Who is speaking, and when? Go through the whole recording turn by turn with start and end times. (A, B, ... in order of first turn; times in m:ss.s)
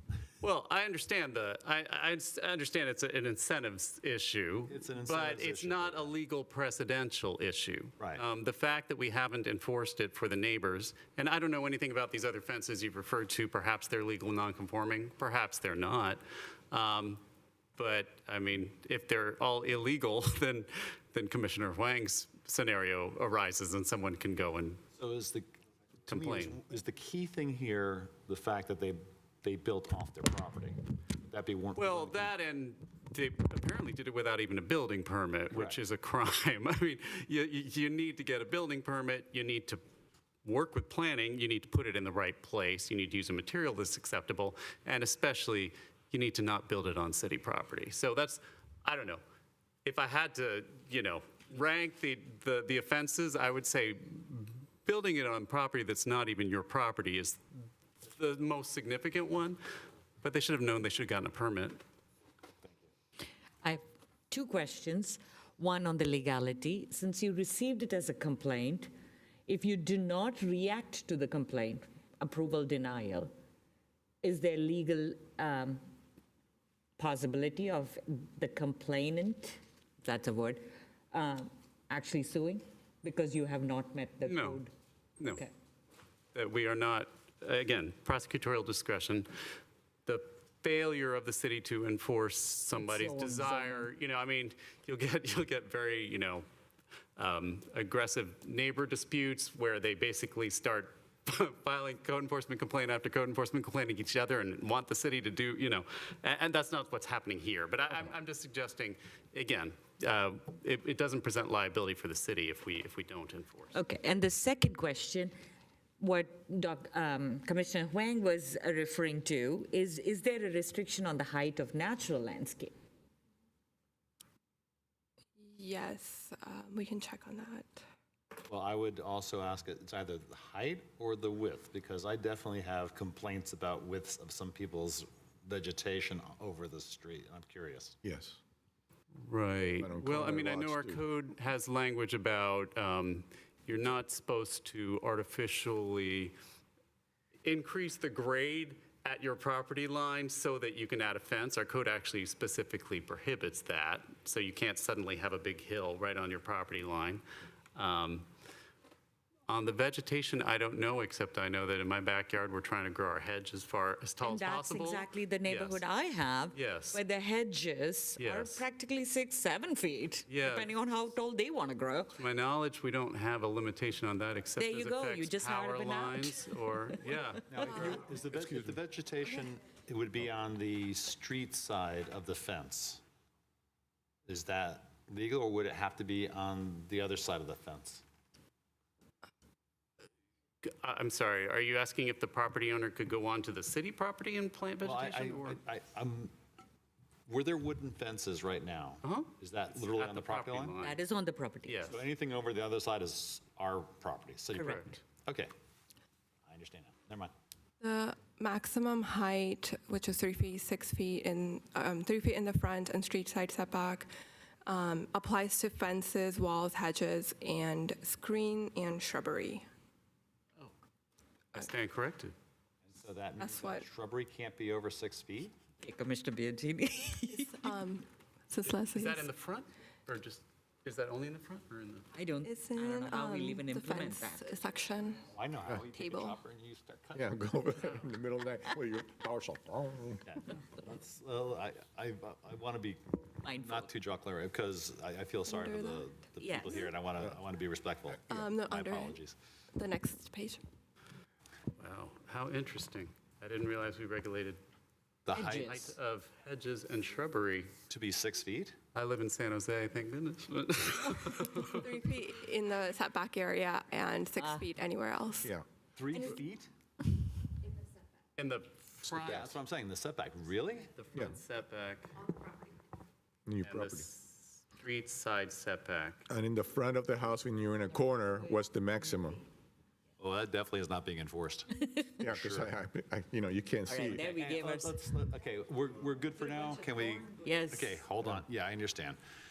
0:00.4-0:17.2 A
0:04.7-0:06.2 B
0:17.8-0:24.8 A
0:25.0-0:32.3 B
0:26.1-0:26.6 A
0:31.8-0:39.8 A
0:35.5-0:35.8 B
0:40.4-0:49.2 A
0:49.8-0:57.4 A
0:58.0-0:59.6 A
1:00.2-1:01.8 A
1:03.6-1:08.9 C
1:09.5-1:13.3 C
1:14.2-1:15.8 C
1:17.0-1:24.7 C
1:24.2-1:24.6 A
1:25.2-1:25.5 A
1:26.3-1:29.3 A
1:30.1-1:36.4 A
1:32.8-1:33.9 C
1:37.2-1:53.8 A
1:53.7-1:55.3 C
1:56.0-2:02.7 C
2:05.4-2:07.8 D
2:08.4-2:18.0 B
2:18.0-2:18.4 E
2:19.1-2:26.3 A
2:19.8-2:21.1 E
2:27.4-2:37.2 A
2:37.8-2:38.3 A
2:39.5-2:45.8 A
2:44.2-2:52.2 C
2:46.5-2:47.0 A
2:48.2-2:48.6 A
2:50.3-2:50.7 A
2:52.2-2:57.6 A
2:54.6-2:57.9 C
2:57.5-3:03.0 B
2:57.8-2:58.8 E
3:04.3-3:08.0 B
3:10.6-3:15.6 A
3:14.8-3:16.3 B
3:17.3-3:20.7 B
3:19.0-3:21.0 A
3:20.8-3:22.0 C
3:21.6-3:22.0 A
3:21.9-3:25.5 B
3:24.6-3:24.8 C
3:24.6-3:25.0 A
3:26.4-3:27.3 B
3:27.8-3:34.1 D
3:34.7-3:39.6 D
3:41.6-3:42.3 A
3:42.8-3:45.6 B
3:43.4-3:43.9 D
3:45.8-3:47.6 C
3:47.4-3:49.3 D
3:48.9-3:52.1 A
3:52.1-3:54.6 C
3:52.4-3:55.3 D
3:55.3-3:57.3 B
3:55.9-3:56.4 D
3:57.1-4:00.3 E
4:00.3-4:09.4 B
4:03.4-4:03.9 C
4:05.4-4:06.1 D
4:06.4-4:06.9 C
4:08.3-4:09.2 D
4:09.8-4:10.6 D
4:11.8-4:14.6 A
4:15.3-4:15.7 B
4:15.3-4:15.9 C
4:15.5-4:17.7 A
4:17.9-4:18.8 B
4:18.9-4:21.9 A
4:21.7-4:25.5 D
4:24.4-4:24.7 C
4:26.0-4:26.7 B
4:28.4-4:29.6 A
4:29.0-4:31.0 B
4:30.9-4:32.1 A
4:33.5-4:34.1 E
4:33.6-4:36.2 A
4:36.3-4:39.4 E
4:40.2-4:41.7 B
4:42.2-4:44.3 E
4:42.3-4:42.7 B
4:43.9-4:45.0 C
4:44.3-4:49.2 B
4:47.4-4:48.0 C